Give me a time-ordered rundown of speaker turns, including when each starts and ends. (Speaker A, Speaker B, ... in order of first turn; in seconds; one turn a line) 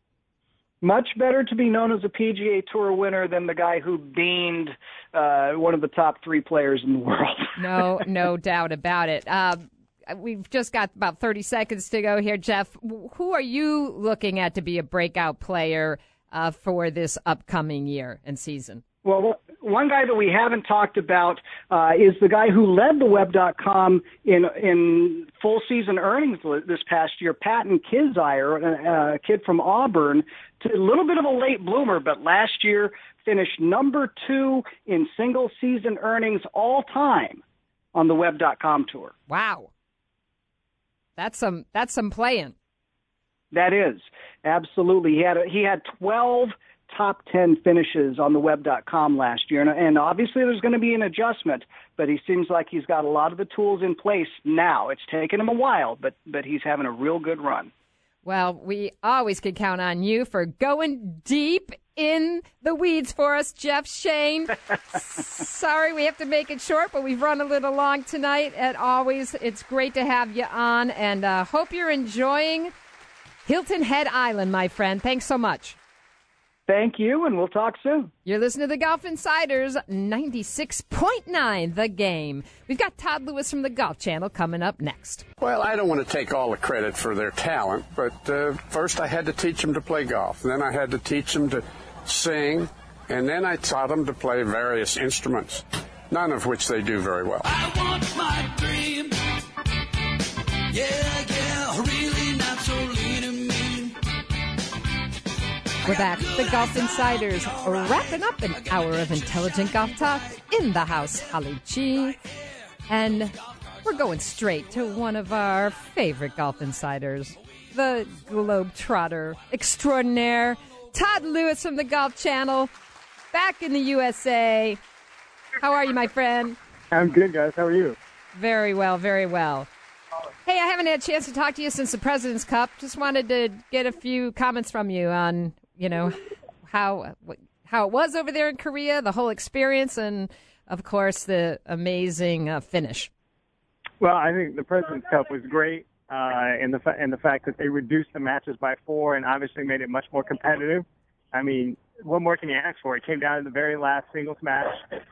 Speaker A: 0.8-7.7
Speaker B: 7.6-18.8
Speaker A: 19.0-37.4
Speaker A: 38.0-39.1
Speaker B: 39.3-39.7
Speaker B: 41.2-42.5
Speaker A: 43.5-57.7
Speaker B: 58.2-72.7
Speaker B: 73.5-75.8
Speaker A: 76.7-78.1
Speaker B: 78.3-85.3
Speaker C: 85.4-97.5
Speaker D: 97.4-99.3
Speaker D: 100.7-104.0
Speaker D: 105.8-116.6
Speaker B: 105.9-112.2
Speaker B: 112.9-122.7
Speaker D: 117.3-121.2
Speaker B: 123.3-124.8
Speaker B: 125.6-126.6
Speaker E: 126.9-128.0
Speaker B: 128.3-129.7
Speaker B: 130.4-143.1
Speaker E: 144.0-154.8